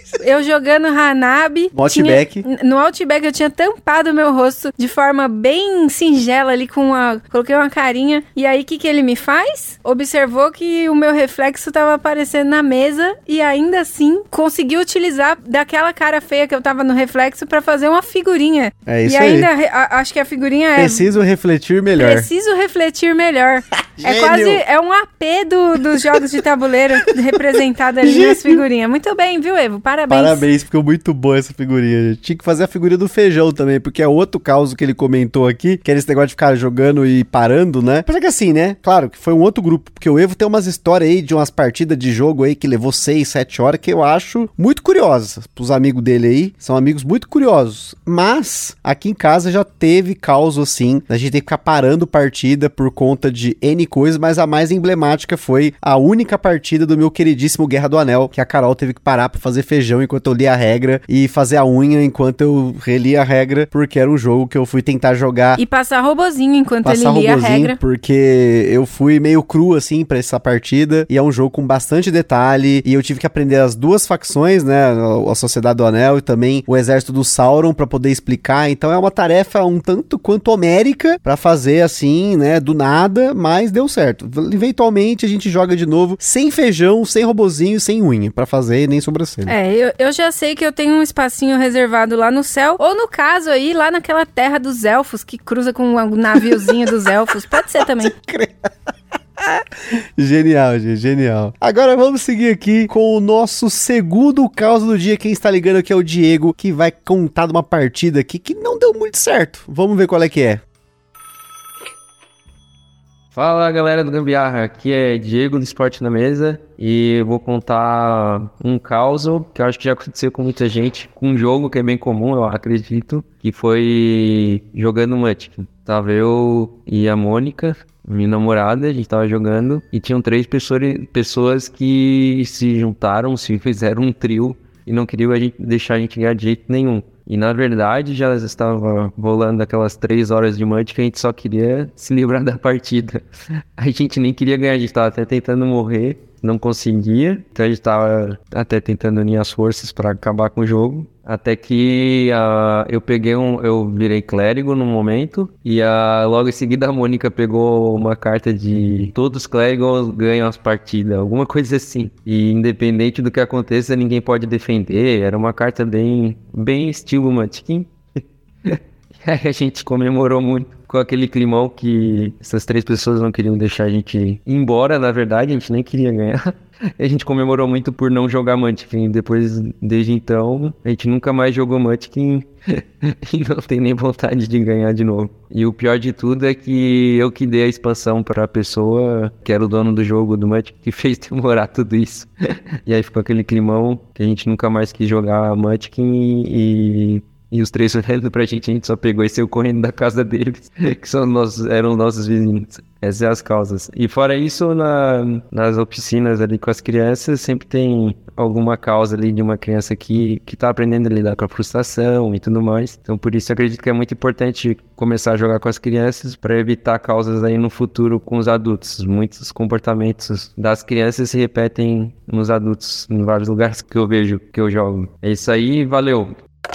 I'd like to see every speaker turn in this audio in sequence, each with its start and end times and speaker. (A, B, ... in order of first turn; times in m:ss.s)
0:00.2-0:21.1 A
0:01.7-0:02.4 B
0:18.8-0:19.5 B
0:20.8-0:22.3 B
0:22.0-0:30.4 A
0:24.0-0:24.6 B
0:25.9-0:26.2 B
0:27.0-0:27.4 B
0:28.0-0:28.6 B
0:30.1-1:05.6 B
1:05.6-1:07.8 A
1:06.8-1:29.5 B
1:29.5-1:38.1 A
1:36.3-1:36.9 B
1:37.5-1:38.7 B
1:39.4-1:50.6 B
1:53.3-2:23.2 C
2:23.8-2:47.9 C
2:48.6-3:12.3 C
3:12.8-3:46.4 C